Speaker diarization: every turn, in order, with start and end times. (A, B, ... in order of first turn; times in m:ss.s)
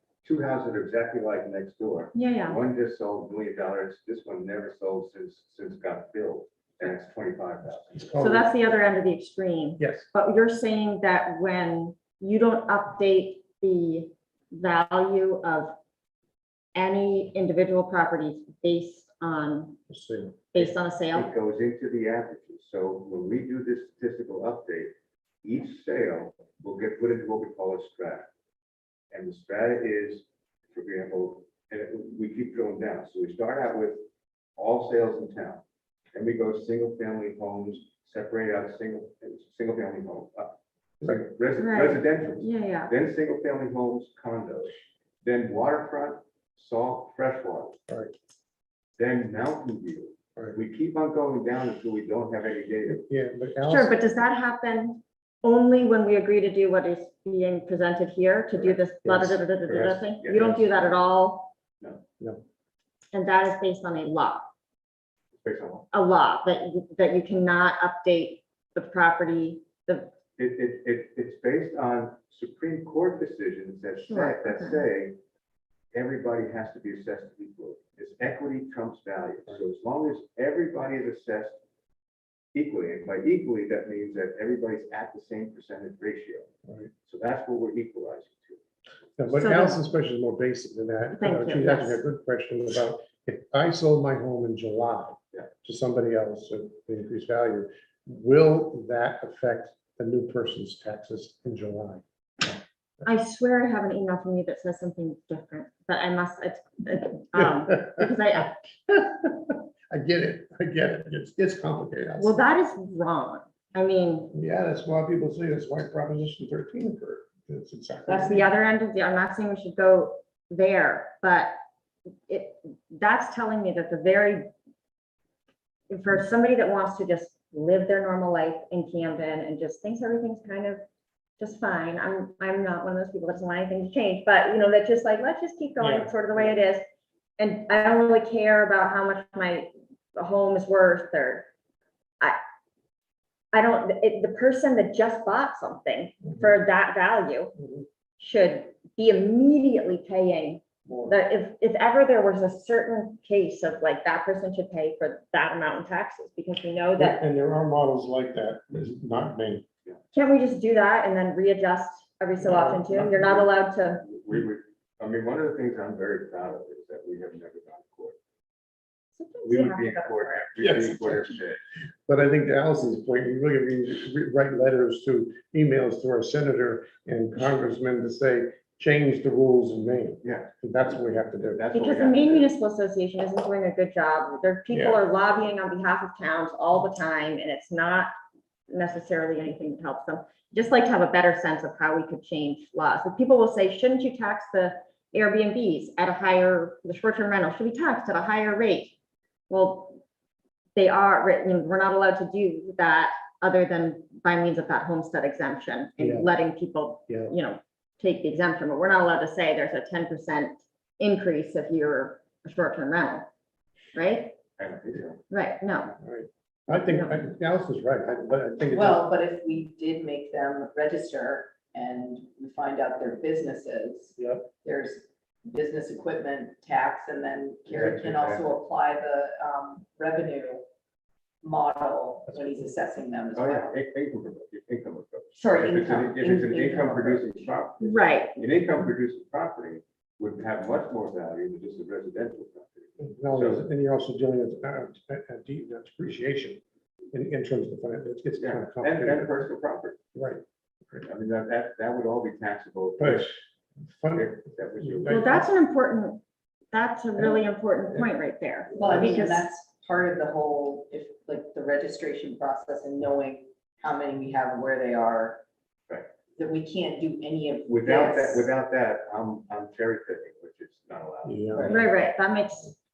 0:00.2-0:08.0 A
0:02.1-0:02.6 B
0:08.0-0:08.5 C
0:08.2-0:15.8 B
0:09.8-0:10.1 C
0:16.8-0:19.8 B
0:19.9-0:20.4 C
0:20.5-0:21.3 B
0:20.6-0:28.3 A
0:29.1-0:34.0 A
0:34.6-0:35.6 A
0:36.1-0:47.8 A
0:41.6-0:42.9 B
0:47.9-0:48.1 C
0:49.0-0:53.0 A
0:52.9-0:54.0 C
0:53.6-1:01.5 B
0:59.0-1:00.0 C
0:59.7-1:00.6 A
1:03.1-1:04.5 B
1:05.4-1:05.9 A
1:05.9-1:10.1 B
1:10.4-1:15.2 A
1:14.0-1:14.8 B
1:15.9-1:21.6 A
1:22.5-1:26.5 A
1:26.7-1:26.9 C
1:27.1-1:28.6 A
1:29.2-1:42.0 C
1:29.3-1:29.8 B
1:31.2-1:32.0 B
1:43.0-1:48.6 B
1:47.4-1:48.1 C
1:48.9-1:52.4 C
1:52.2-1:54.3 B
1:54.3-1:58.5 C
1:58.1-2:01.5 B
2:02.3-2:04.5 B
2:05.9-2:10.8 B
2:11.4-2:16.8 B
2:15.8-2:16.1 C
2:17.4-2:21.5 B
2:23.5-2:27.5 B
2:27.6-2:27.9 C
2:28.2-2:37.2 B
2:30.9-2:31.2 C
2:37.0-2:39.7 C
2:40.1-2:44.1 B
2:42.4-2:43.5 C
2:44.0-2:48.2 A
2:49.2-2:51.3 B
2:49.4-2:51.6 A
2:50.6-2:51.2 C
2:52.1-3:01.6 C
3:00.2-3:00.5 A
3:01.5-3:02.5 A
3:01.7-3:08.1 B
3:04.7-3:05.0 C
3:08.7-3:19.0 B
3:19.5-3:20.0 B
3:20.8-3:33.3 B
3:26.0-3:26.3 C
3:27.1-3:27.3 C
3:34.0-3:34.3 B
3:34.6-3:35.2 A
3:35.3-3:35.9 B
3:36.0-3:39.0 C
3:36.7-3:37.2 B
3:38.7-3:50.6 D
3:44.2-3:44.5 C
3:47.7-3:48.5 A
3:51.4-3:53.7 D
3:53.3-4:03.6 A
3:55.4-3:57.6 D
3:57.8-3:58.4 B
4:03.0-4:06.6 C
4:07.1-4:09.4 C
4:08.4-4:10.0 A
4:10.1-4:11.1 C
4:11.0-4:13.4 A
4:13.0-4:15.5 C
4:14.1-4:15.3 A
4:15.1-4:19.5 B
4:18.8-4:25.4 D
4:26.4-4:28.5 D
4:27.7-4:31.8 A
4:31.2-4:31.8 C
4:31.6-4:31.8 D
4:31.6-4:32.8 B